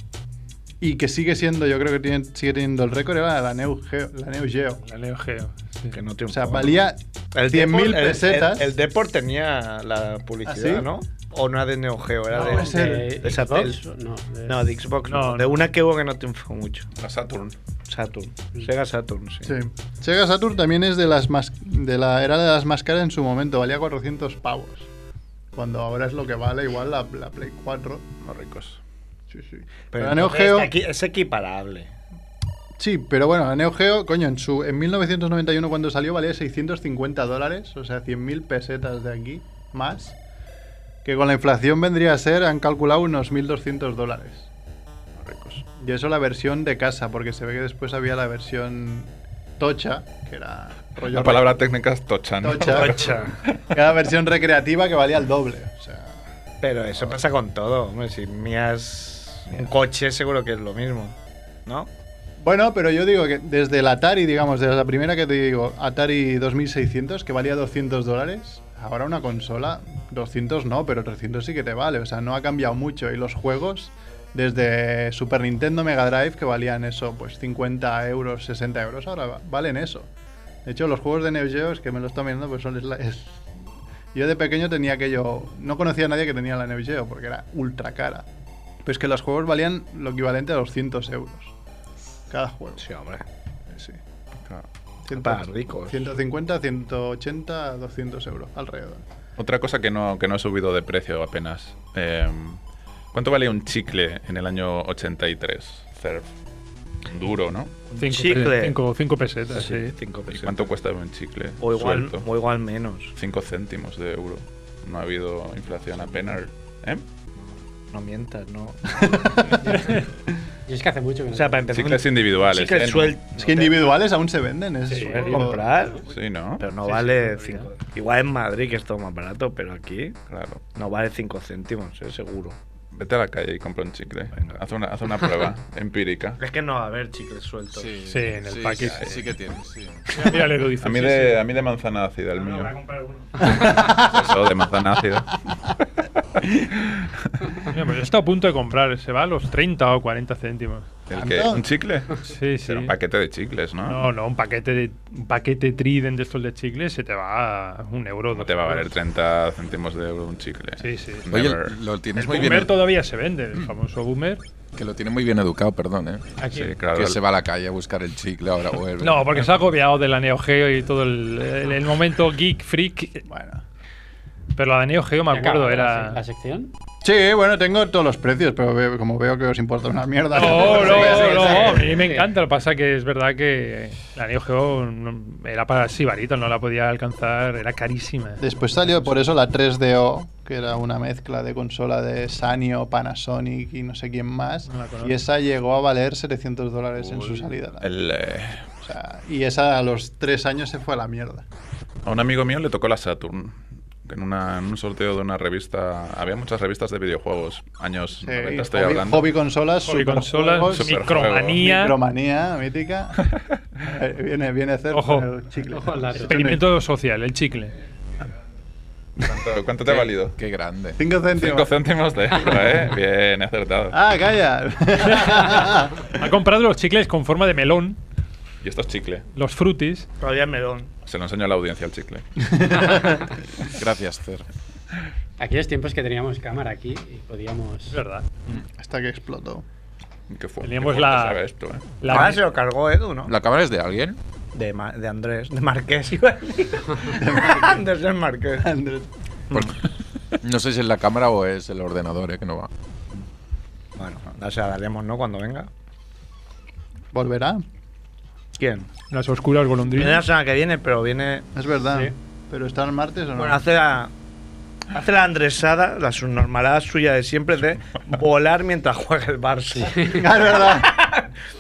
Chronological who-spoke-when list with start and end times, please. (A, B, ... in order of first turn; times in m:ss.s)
0:00.8-0:04.8 A
0:04.9-0:06.0 B
0:05.9-0:13.8 C
0:06.3-0:08.7 A
0:10.5-0:10.9 A
0:12.4-0:13.2 A
0:12.4-0:14.6 D
0:14.5-0:16.9 C
0:15.0-0:15.6 B
0:17.0-0:17.6 E
0:17.9-0:19.6 C
0:19.4-0:24.9 A
0:25.5-0:28.1 A
0:28.2-0:28.8 E
0:29.3-0:30.7 A
0:29.9-0:31.9 C
0:32.8-0:40.2 A
0:41.0-0:44.5 A
0:45.2-0:45.6 E
0:45.8-0:51.6 A
0:51.1-0:53.6 E
0:52.4-0:53.2 A
0:52.7-0:53.4 C
0:53.7-0:56.1 A
0:56.6-1:01.2 C
1:02.4-1:20.1 A
1:20.6-1:23.5 A
1:24.1-1:28.2 A
1:28.8-1:31.5 A
1:32.3-1:32.8 A
1:32.8-1:33.2 C
1:33.7-1:34.0 A
1:35.1-1:39.0 A
1:35.1-1:36.1 C
1:39.4-1:42.6 E
1:43.1-1:46.3 E
1:47.1-1:47.7 E
1:47.9-1:48.8 C
1:48.0-1:50.0 B
1:49.5-1:50.8 C
1:50.3-1:52.3 E
1:51.6-1:53.1 C
1:53.2-1:57.0 E
1:57.9-1:59.2 C
1:59.0-1:59.6 A
2:00.7-2:01.8 D
2:01.3-2:03.9 C
2:01.7-2:03.2 E
2:03.4-2:05.6 A
2:04.9-2:05.6 B
2:05.2-2:06.0 C
2:06.1-2:06.6 E
2:06.6-2:10.2 C
2:06.8-2:07.7 B
2:10.3-2:10.6 E
2:10.8-2:12.6 C
2:12.9-2:16.4 E
2:14.4-2:14.6 C
2:16.4-2:18.0 C
2:17.7-2:20.3 F
2:18.1-2:19.2 B
2:18.9-2:19.2 E
2:20.1-2:21.4 B
2:20.8-2:22.7 E
2:22.4-2:23.3 C
2:23.4-2:25.4 E
2:23.5-2:24.1 A
2:26.8-2:27.4 E
2:27.7-2:30.9 B
2:31.1-2:34.1 E
2:31.1-2:31.7 A
2:32.3-2:32.9 B
2:33.9-2:38.9 B
2:38.3-2:41.8 E
2:40.8-2:41.3 B
2:41.3-2:42.8 F
2:42.2-2:44.4 B
2:44.8-2:46.2 F
2:46.4-2:46.7 D
2:46.5-2:47.2 E
2:46.9-2:49.4 F
2:49.0-2:53.2 B
2:53.3-2:53.6 A
2:54.6-2:56.2 B
2:55.3-2:56.7 D
2:57.0-3:01.9 A
3:00.3-3:08.4 B
3:00.6-3:02.3 D
3:08.4-3:18.0 A
3:14.7-3:15.2 B
3:17.8-3:18.6 E
3:18.8-3:21.4 A
3:22.0-3:29.4 E
3:28.2-3:33.3 A
3:29.8-3:32.0 B
3:30.7-3:31.6 E
3:33.8-3:36.6 A
3:34.9-3:35.3 B
3:35.7-3:36.5 D
3:36.2-3:37.7 B
3:39.2-3:40.4 E
3:39.9-3:41.0 F
3:41.0-3:41.7 A
3:41.4-3:44.0 E
3:43.9-3:46.1 A
3:46.2-3:48.0 B
3:48.6-3:49.2 E
3:49.3-3:50.1 B
3:50.2-3:50.9 C
3:51.1-3:52.4 E
3:52.5-3:53.2 A
3:53.7-3:54.5 F
3:55.4-3:58.0 D
3:57.9-3:58.3 B
3:58.5-3:59.6 A
4:00.3-4:01.9 E
4:00.6-4:01.4 B
4:02.0-4:02.4 B
4:02.1-4:03.3 C
4:03.3-4:04.2 F
4:04.5-4:08.7 C
4:07.1-4:07.9 A
4:08.6-4:09.1 A
4:10.4-4:12.7 F
4:14.0-4:15.7 C
4:17.1-4:17.6 A
4:18.6-4:18.9 C
4:19.1-4:20.3 B
4:19.9-4:21.5 C
4:21.6-4:23.6 A
4:23.4-4:24.1 C
4:24.9-4:31.3 C
4:29.8-4:30.2 D
4:30.1-4:31.0 A